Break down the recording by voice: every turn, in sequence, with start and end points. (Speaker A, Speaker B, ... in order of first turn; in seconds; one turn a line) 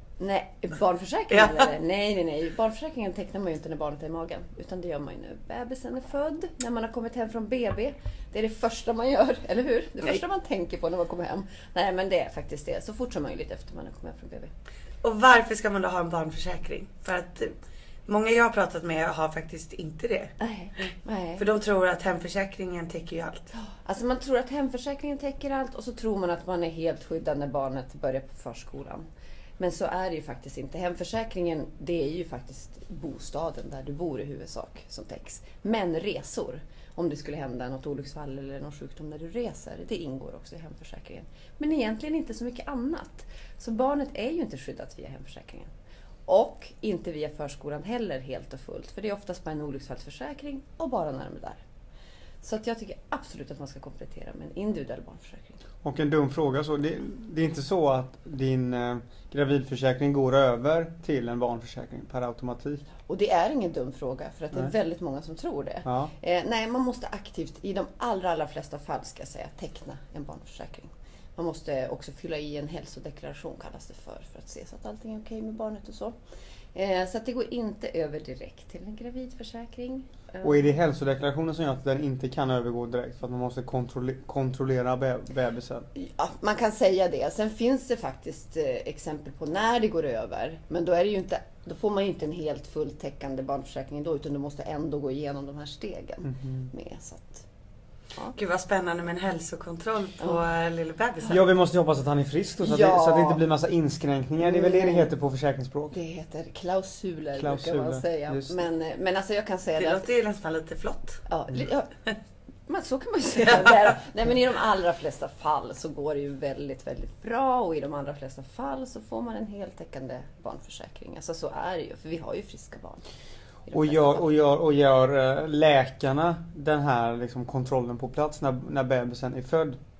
Speaker A: 0.2-14.5
Speaker B: 1.3-1.7
Speaker B: 15.0-17.5
Speaker B: 18.1-20.3
Speaker A: 20.4-21.4
Speaker B: 21.4-23.5
Speaker A: 23.5-29.1
Speaker A: 29.6-45.7
Speaker A: 46.3-51.6
Speaker A: 52.4-55.6
Speaker C: 55.8-62.8
Speaker A: 63.1-76.1
Speaker C: 65.8-66.1
Speaker A: 76.7-80.7
Speaker C: 80.4-85.9
Speaker A: 85.9-97.4
Speaker C: 96.2-96.7
Speaker B: 98.3-101.4
Speaker C: 101.3-106.0
Speaker A: 102.6-103.4
Speaker A: 104.4-105.1
Speaker A: 105.9-110.1
Speaker C: 107.3-108.6
Speaker B: 109.8-111.2
Speaker A: 111.3-111.9
Speaker A: 112.7-123.0
Speaker B: 113.5-113.7
Speaker A: 123.7-124.2
Speaker C: 123.7-129.8